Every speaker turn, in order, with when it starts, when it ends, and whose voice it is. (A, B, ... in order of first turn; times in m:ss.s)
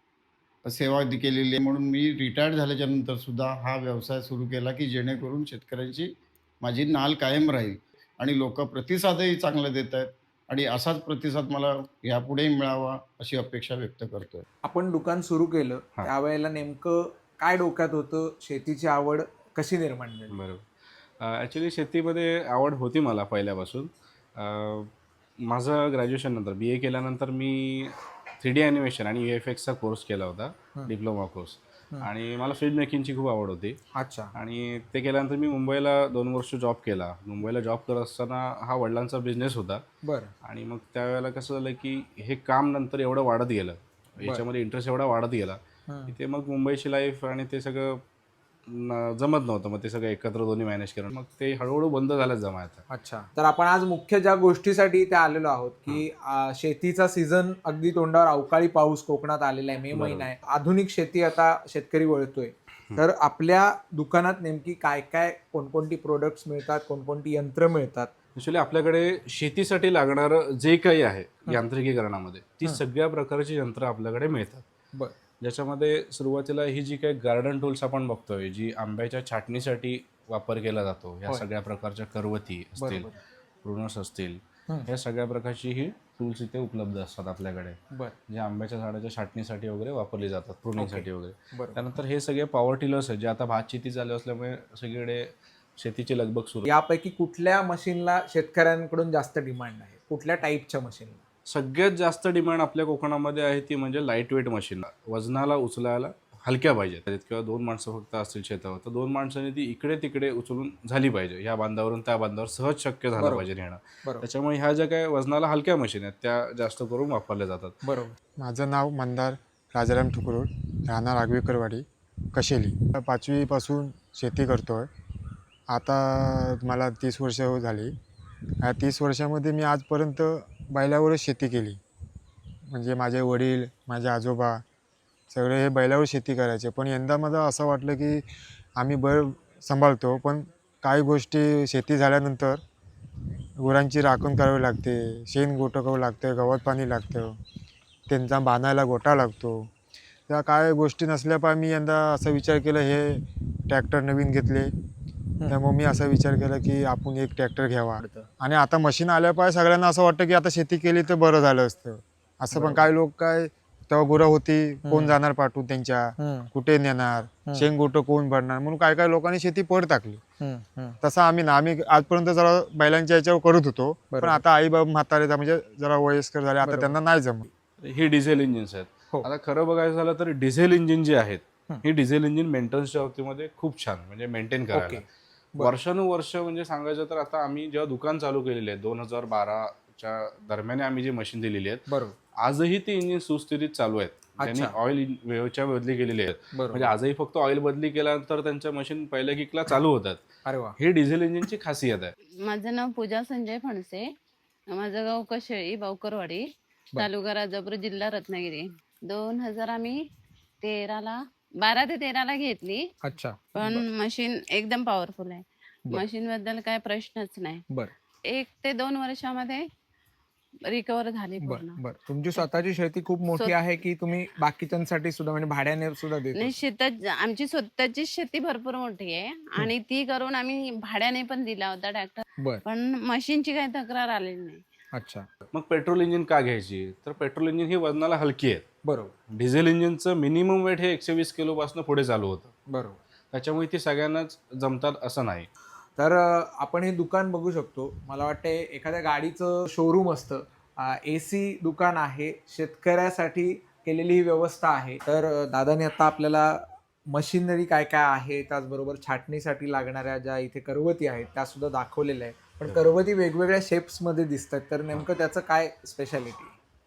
0:00.6-0:14.4 A
0:14.6-0:20.3 B
0:20.3-0:20.6 C
0:21.2-0:24.9 C
0:25.5-0:33.8 C
0:33.9-0:34.3 B
0:34.3-0:39.8 C
0:40.0-0:40.3 B
0:40.4-0:45.6 C
0:45.9-0:46.1 B
0:46.1-0:48.0 C
0:48.7-0:52.8 C
0:52.9-1:08.1 B
0:59.9-1:00.2 C
1:08.4-1:14.6 C
1:15.4-1:23.1 C
1:22.8-1:23.1 B
1:23.6-1:36.7 C
1:30.8-1:31.8 B
1:36.7-1:41.2 B
1:41.5-1:57.7 C
1:53.2-1:53.4 B
1:57.8-1:58.2 B
1:58.4-2:04.9 D
2:05.7-2:07.9 D
2:08.6-2:11.8 D
2:12.7-2:14.6 D
2:15.3-2:18.2 D
2:18.8-2:22.6 D
2:23.6-2:27.3 D
2:28.1-2:29.7 D
2:30.3-2:34.7 D
2:35.4-2:50.2 D
2:42.5-2:42.9 B
2:44.8-2:45.2 B
2:46.2-2:46.5 B
2:50.4-2:51.0 B
2:51.0-2:57.5 D
2:54.1-2:54.4 B
2:56.6-2:56.9 B
2:57.8-3:05.0 C
3:04.7-3:05.0 B
3:05.6-3:11.8 C
3:11.9-3:12.1 B
3:12.4-3:20.2 C
3:14.4-3:14.7 B
3:16.5-3:16.9 B
3:20.4-3:20.8 B
3:20.8-3:22.1 C
3:22.4-3:24.1 E
3:24.7-3:26.5 E
3:27.0-3:30.0 E
3:30.6-3:32.9 E
3:33.0-3:33.8 B
3:33.6-3:37.6 E
3:38.3-3:39.6 E
3:40.7-3:41.8 E
3:41.4-3:46.6 B
3:46.3-3:54.6 E
3:54.9-3:55.3 B
3:55.5-3:58.6 C
3:58.8-3:59.1 B
3:59.3-4:02.5 C
4:02.7-4:03.0 B
4:03.3-4:05.5 C
4:06.0-4:26.5 B